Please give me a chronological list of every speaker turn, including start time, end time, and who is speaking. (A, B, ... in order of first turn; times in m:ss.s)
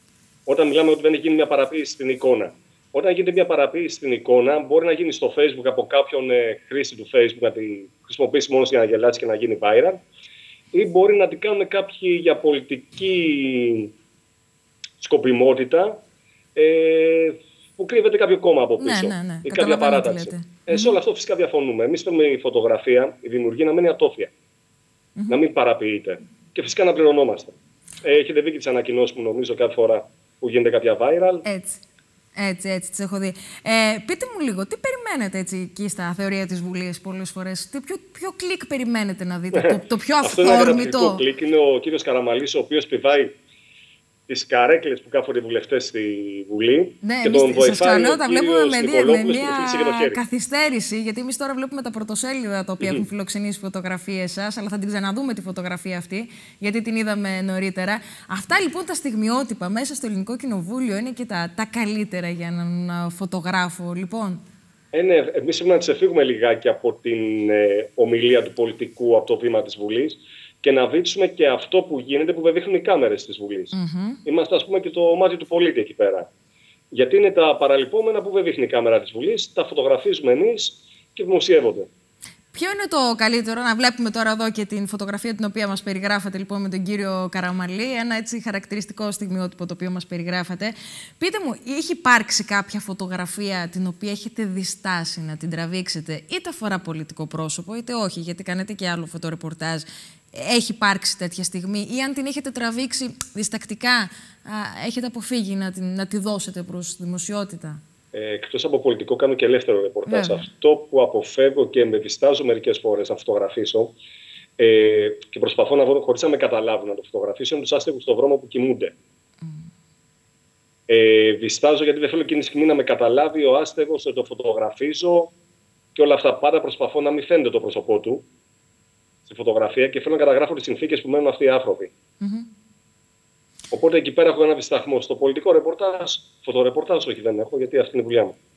0:00.5-0:10.0 A
0:10.7-0:13.9 A
0:15.0-0:16.0 A
0:16.6-0:24.3 A
0:18.8-0:21.0 B
0:25.2-0:25.4 B
0:25.3-0:31.4 A
0:31.4-0:31.8 B
0:32.4-0:41.2 B
0:39.5-0:43.4 A
0:44.3-0:50.2 A
0:47.0-1:04.4 B
0:52.8-0:53.1 A
1:04.9-1:16.3 A
1:13.7-1:14.2 B
1:16.9-1:21.9 A
1:22.5-1:47.8 B
1:48.1-1:54.0 A
1:50.1-1:50.5 B
1:54.6-1:59.0 A
2:00.9-2:05.3 A
2:06.0-2:08.3 A
2:09.3-2:11.9 A
2:12.2-2:12.5 B
2:13.7-2:18.4 A